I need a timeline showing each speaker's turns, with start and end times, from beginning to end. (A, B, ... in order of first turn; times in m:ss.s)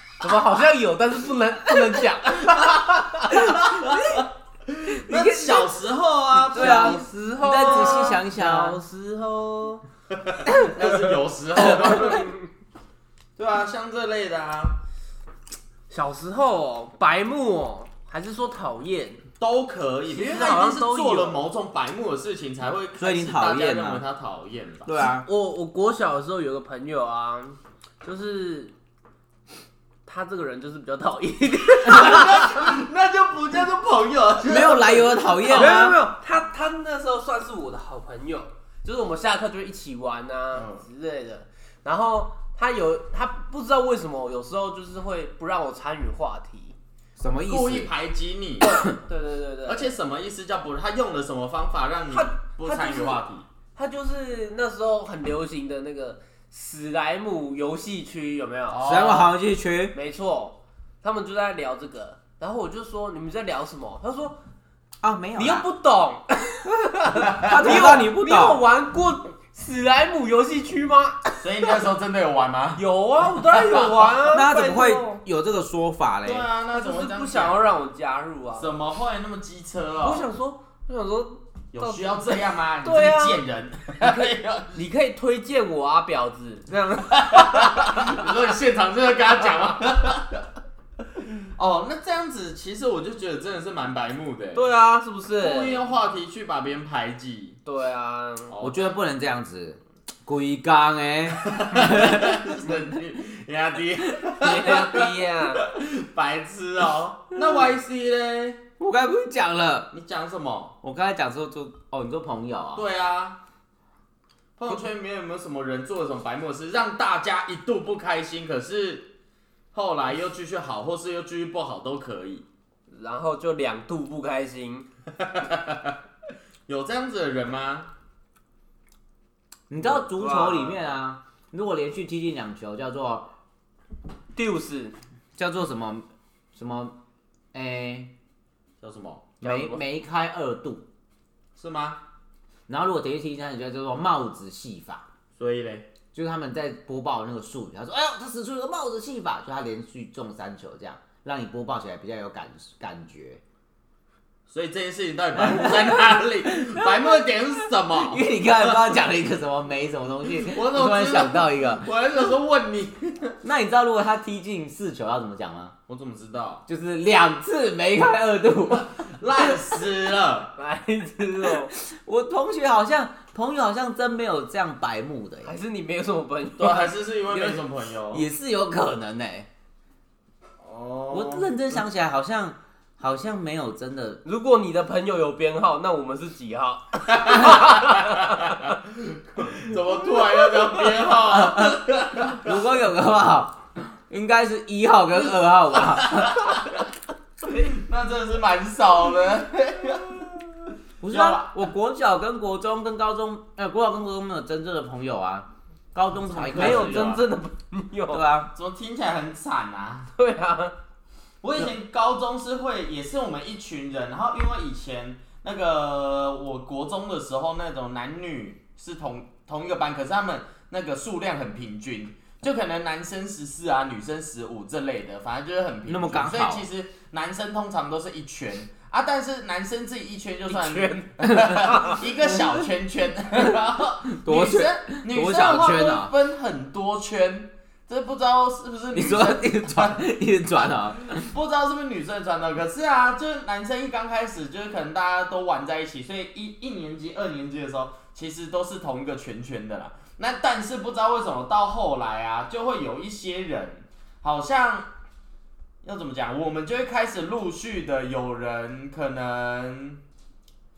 0:00.2-0:03.3 A
0:03.3-0:08.2 B
0:03.3-0:04.2 C
0:04.9-0:05.7 C
0:06.3-0:08.8 C
0:06.5-0:09.8 A
0:10.1-0:12.3 B
0:12.0-0:12.4 A
0:13.4-0:14.8 B
0:15.9-0:19.2 A
0:19.4-0:24.9 B
0:20.1-0:21.4 A
0:23.0-0:24.0 C
0:24.8-0:25.3 C
0:25.0-0:28.7 A
0:30.0-0:32.7 A
0:31.8-0:35.8 B
0:34.4-0:36.0 C
0:35.4-0:46.8 A
0:40.5-0:40.8 B
0:47.2-0:47.9 C
0:47.5-0:48.8 B
0:48.7-0:49.9 A
0:49.6-0:53.5 B
0:52.1-0:53.2 A
0:53.7-0:59.3 A
0:58.8-0:59.9 C
0:59.9-1:04.4 A
1:05.0-1:05.7 C
1:05.4-1:11.3 A
1:07.3-1:08.0 B
1:07.4-1:08.6 C
1:11.4-1:12.8 B
1:12.8-1:15.2 A
1:13.4-1:14.2 B
1:14.3-1:16.5 C
1:16.2-1:17.6 B
1:16.7-1:18.7 A
1:18.5-1:20.3 B
1:20.0-1:23.4 A
1:21.7-1:24.8 B
1:24.0-1:28.3 A
1:27.1-1:30.4 B
1:31.2-1:34.7 B
1:34.5-1:35.8 A
1:35.4-1:37.6 B
1:37.6-1:38.5 A
1:38.5-1:38.9 B
1:38.6-1:42.9 C
1:41.4-1:45.1 B
1:44.4-1:45.6 A
1:45.6-1:48.7 B
1:48.8-1:49.9 C
1:49.9-1:50.8 B
1:50.8-1:52.8 C
1:52.8-1:53.4 B
1:54.6-1:59.1 B
1:59.7-2:02.4 B
2:02.9-2:04.9 A
2:05.2-2:06.0 B
2:06.7-2:07.9 B
2:09.7-2:13.3 C
2:09.8-2:10.8 A
2:14.3-2:14.9 A
2:15.4-2:17.0 C
2:17.5-2:18.1 C
2:18.8-2:19.3 B
2:19.4-2:19.8 A
2:19.4-2:20.8 C
2:21.6-2:22.0 B
2:22.7-2:25.0 C
2:25.4-2:25.9 B
2:26.1-2:33.4 C
2:34.5-2:38.8 B
2:35.4-2:37.2 C
2:37.9-2:41.9 C
2:40.3-2:43.4 B
2:43.4-2:45.7 C
2:45.9-2:46.6 B
2:46.7-2:49.5 C
2:49.1-2:50.5 B
2:50.6-2:51.7 A
2:51.7-2:55.5 C
2:55.4-2:57.0 A
2:56.6-2:58.3 B
2:57.3-2:59.5 C
3:00.6-3:01.6 B
3:01.1-3:04.2 C
3:04.2-3:08.7 A
3:07.1-3:12.6 B
3:11.3-3:16.6 C
3:15.8-3:16.8 B
3:17.4-3:17.7 A
3:17.7-3:21.6 B
3:21.0-3:27.2 C
3:26.3-3:28.2 A
3:26.3-3:27.2 B
3:28.1-3:28.5 C
3:28.5-3:30.1 B
3:30.2-3:30.7 A
3:31.4-4:00.0 B
3:45.9-3:46.7 C
3:50.5-3:52.0 A
3:53.4-3:56.1 C
3:58.9-4:01.3 C
4:00.6-4:14.9 B
4:15.8-4:20.0 B